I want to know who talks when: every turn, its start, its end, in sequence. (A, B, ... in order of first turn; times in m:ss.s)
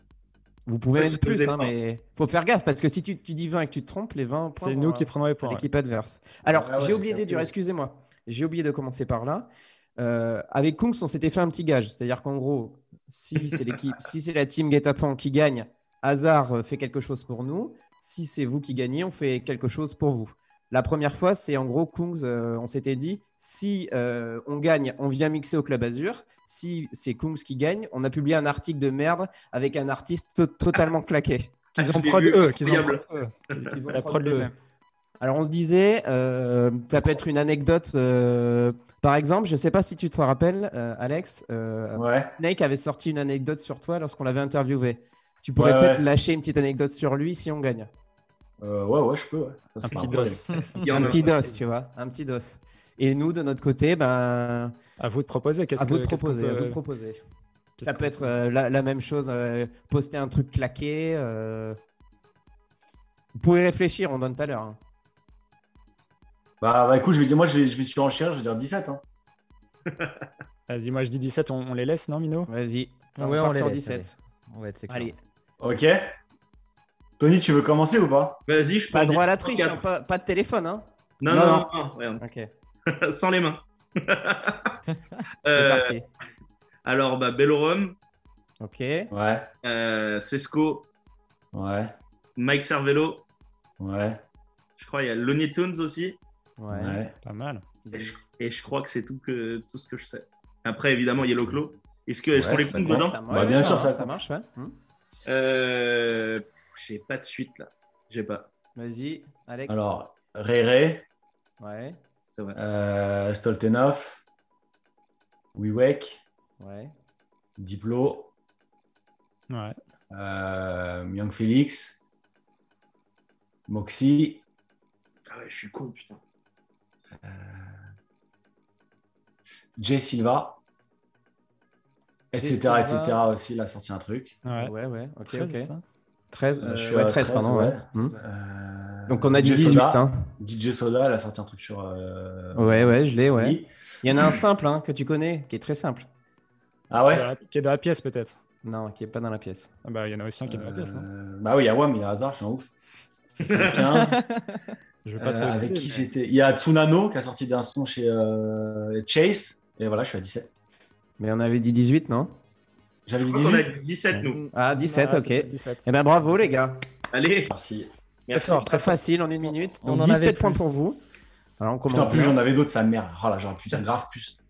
0:00.7-0:31.6 A
0:00.9-0:01.7 B
0:04.6-0:05.6 C
0:06.5-0:07.5 D
0:31.8-0:34.5 C
0:31.8-0:33.7 B
0:33.6-0:34.5 A
0:35.2-0:47.9 A
0:42.0-0:42.3 D
0:45.6-0:46.0 D
0:48.6-0:50.4 D
0:49.8-0:51.1 C
0:50.5-0:50.9 E
0:50.8-0:51.6 B
0:50.8-0:54.8 A
0:55.0-0:56.8 C
0:55.8-0:57.2 A
0:57.8-0:58.3 C
0:57.8-1:01.8 A
1:03.4-1:04.8 A
1:06.6-1:09.0 D
1:10.7-1:12.5 C
1:12.5-1:14.1 A
1:13.2-1:15.1 E
1:14.9-1:15.2 A
1:15.6-1:16.2 D
1:17.2-1:18.4 D
1:18.5-1:19.8 B
1:18.9-1:21.6 A
1:21.2-1:22.2 B
1:22.2-1:22.5 A
1:22.9-1:24.8 B
1:25.4-1:26.0 B
1:25.5-1:26.1 A
1:26.9-1:28.0 B
1:28.6-1:29.1 A
1:29.1-1:29.5 D
1:29.6-1:30.9 B
1:31.5-1:31.9 D
1:32.4-1:33.2 B
1:33.8-1:34.2 D
1:34.8-1:36.2 B
1:36.6-1:37.0 A
1:36.7-1:37.1 D
1:37.2-1:37.6 C
1:37.9-1:38.2 A
1:37.9-1:43.4 B
1:42.3-1:44.2 D
1:42.7-1:44.8 A
1:45.3-1:48.5 B
1:48.8-1:49.9 A
1:49.7-1:51.1 D
1:51.6-1:52.0 A
1:52.6-1:54.2 D
1:55.6-1:56.2 D
1:56.6-1:56.9 A
1:57.6-1:58.3 D
1:59.5-1:59.8 C
2:00.1-2:02.0 D
2:03.7-2:04.4 D
2:05.3-2:06.2 B
2:07.2-2:07.8 D
2:09.8-2:10.6 D
2:12.3-2:14.4 D
2:12.4-2:13.2 A
2:14.4-2:14.7 C
2:14.6-2:15.7 A
2:15.3-2:15.8 C
2:16.3-2:18.2 A
2:16.6-2:23.7 D
2:19.1-2:20.3 A
2:22.6-2:26.1 A
2:26.9-2:27.3 D
2:27.1-2:28.4 C
2:28.6-2:29.7 A
2:29.8-2:31.1 C
2:30.5-2:32.7 D
2:33.4-2:34.2 D
2:33.4-2:33.9 B
2:34.1-2:34.6 E
2:35.0-2:36.1 C
2:35.2-2:40.5 D
2:41.2-2:42.3 A
2:43.1-2:43.7 D
2:43.2-2:44.4 B
2:44.5-2:46.8 A
2:44.9-2:46.3 C
2:47.1-2:47.6 B
2:47.5-2:47.9 D
2:48.3-2:48.8 B
2:48.3-2:49.0 C
2:48.6-2:51.0 A
2:49.8-2:50.7 E
2:51.6-2:52.4 A
2:51.9-2:54.4 D